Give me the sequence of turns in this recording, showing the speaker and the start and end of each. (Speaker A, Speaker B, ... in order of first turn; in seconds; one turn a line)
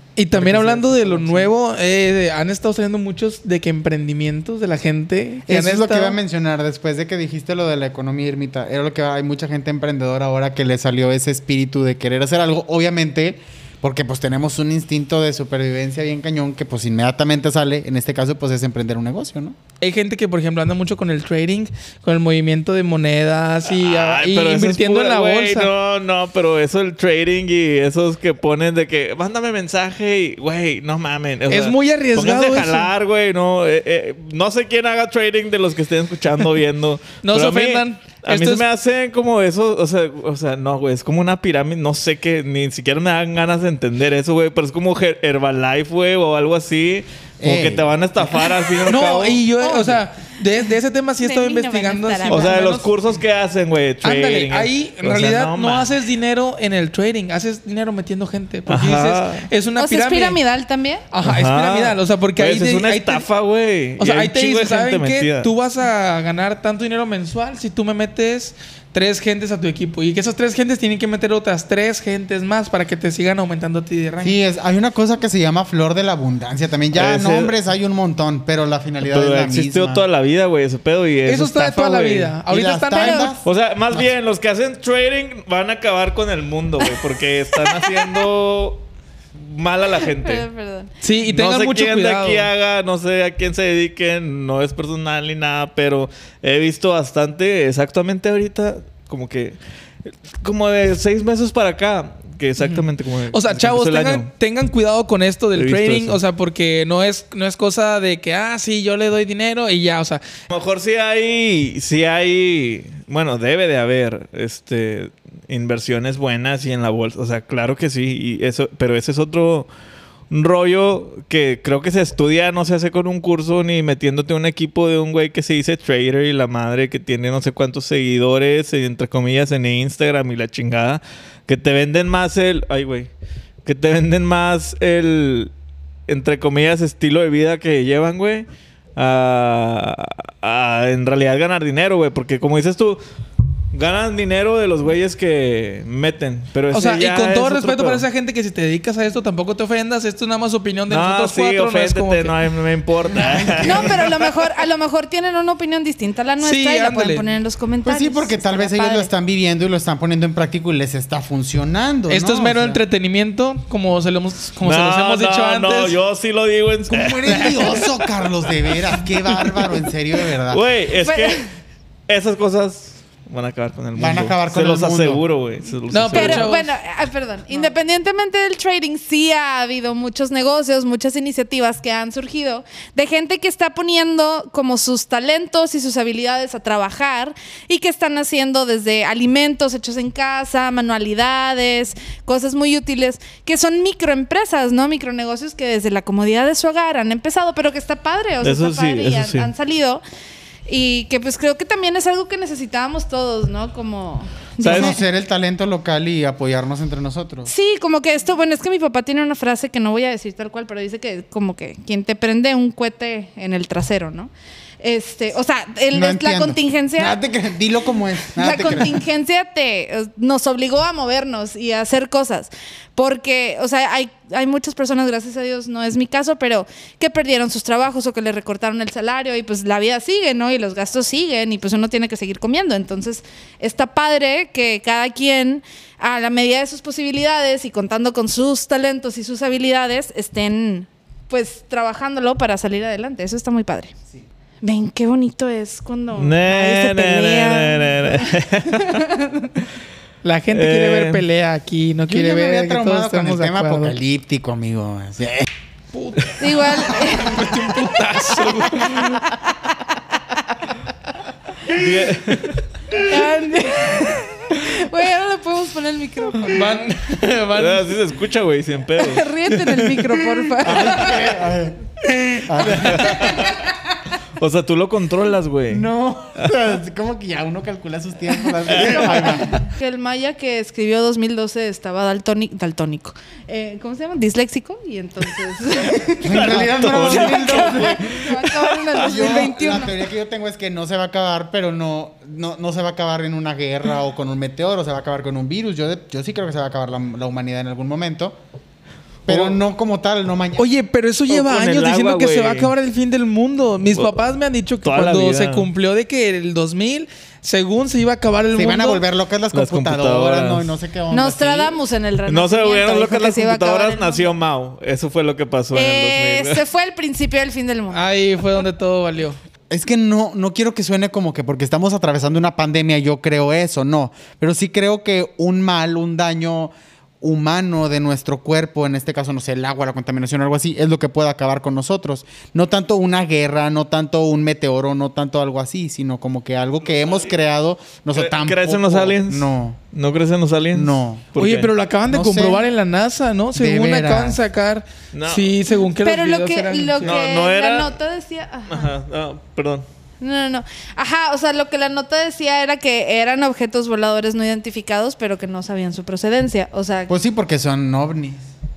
Speaker A: 0.2-6.2
Speaker B: 0.3-1.5
Speaker B: 5.5-19.6
Speaker A: 19.8-25.7
Speaker C: 23.7-49.5
Speaker A: 31.5-32.9
Speaker A: 37.2-38.6
Speaker B: 47.4-47.9
Speaker A: 48.9-52.9
Speaker D: 49.6-50.0
Speaker D: 51.2-52.8
Speaker C: 52.3-55.9
Speaker A: 54.0-60.4
Speaker C: 58.7-59.5
Speaker D: 59.8-61.0
Speaker A: 61.1-63.3
Speaker C: 61.2-65.5
Speaker A: 64.0-74.4
Speaker B: 74.2-80.0
Speaker C: 76.9-77.5
Speaker C: 79.0-82.4
Speaker A: 81.2-83.4
Speaker B: 82.5-83.5
Speaker D: 82.9-83.3
Speaker C: 83.4-88.8
Speaker C: 89.3-90.5
Speaker D: 90.0-90.9
Speaker A: 91.0-92.5
Speaker C: 91.3-104.3
Speaker A: 102.6-110.2
Speaker C: 105.5-106.2
Speaker C: 110.5-119.7
Speaker C: 120.3-133.1
Speaker C: 133.7-135.5
Speaker C: 136.1-143.0
Speaker C: 143.7-148.1
Speaker A: 146.7-152.4
Speaker C: 150.9-154.2
Speaker B: 153.1-154.1
Speaker D: 153.6-159.1
Speaker A: 156.4-157.2
Speaker B: 157.8-162.8
Speaker A: 162.1-166.0
Speaker C: 164.6-167.9
Speaker B: 166.9-170.6
Speaker C: 170.5-171.4
Speaker D: 171.0-171.5
Speaker C: 172.1-176.5
Speaker B: 173.9-175.2
Speaker A: 175.9-176.7
Speaker D: 176.1-200.0
Speaker C: 198.4-199.5
Speaker D: 200.7-205.0
Speaker C: 204.6-205.0
Speaker B: 204.7-207.5
Speaker D: 207.4-217.2
Speaker B: 215.9-219.0
Speaker D: 218.3-243.9
Speaker D: 244.6-249.5
Speaker C: 246.2-249.0
Speaker A: 250.2-254.0
Speaker C: 250.5-251.2
Speaker B: 252.1-255.5
Speaker A: 255.9-259.2
Speaker D: 256.4-260.4
Speaker C: 261.7-262.6
Speaker D: 262.9-266.6
Speaker A: 266.4-267.9
Speaker C: 267.5-269.3
Speaker D: 269.0-271.3
Speaker A: 269.6-270.2
Speaker B: 270.6-271.8
Speaker A: 270.9-271.2
Speaker A: 272.1-272.9
Speaker B: 272.4-273.4
Speaker C: 272.6-273.6
Speaker D: 273.0-273.8
Speaker C: 274.4-276.6
Speaker B: 275.7-279.6
Speaker C: 278.7-279.4
Speaker D: 278.8-289.9
Speaker B: 286.2-288.0
Speaker C: 286.3-289.2
Speaker B: 288.9-298.4
Speaker B: 299.3-300.7
Speaker C: 299.3-299.6
Speaker A: 300.6-309.0
Speaker C: 301.3-302.7
Speaker C: 304.8-305.7
Speaker B: 308.5-311.8
Speaker C: 309.5-310.7
Speaker D: 311.1-314.3
Speaker C: 312.3-316.6
Speaker D: 315.7-318.1
Speaker A: 317.9-319.4
Speaker B: 319.7-339.8
Speaker C: 338.1-341.7
Speaker B: 340.7-341.3
Speaker A: 341.4-347.2
Speaker B: 342.1-342.7
Speaker B: 343.6-344.4
Speaker C: 345.1-345.5
Speaker D: 345.8-348.9
Speaker C: 347.0-348.0
Speaker C: 348.7-349.9
Speaker D: 350.2-357.1
Speaker B: 357.1-358.5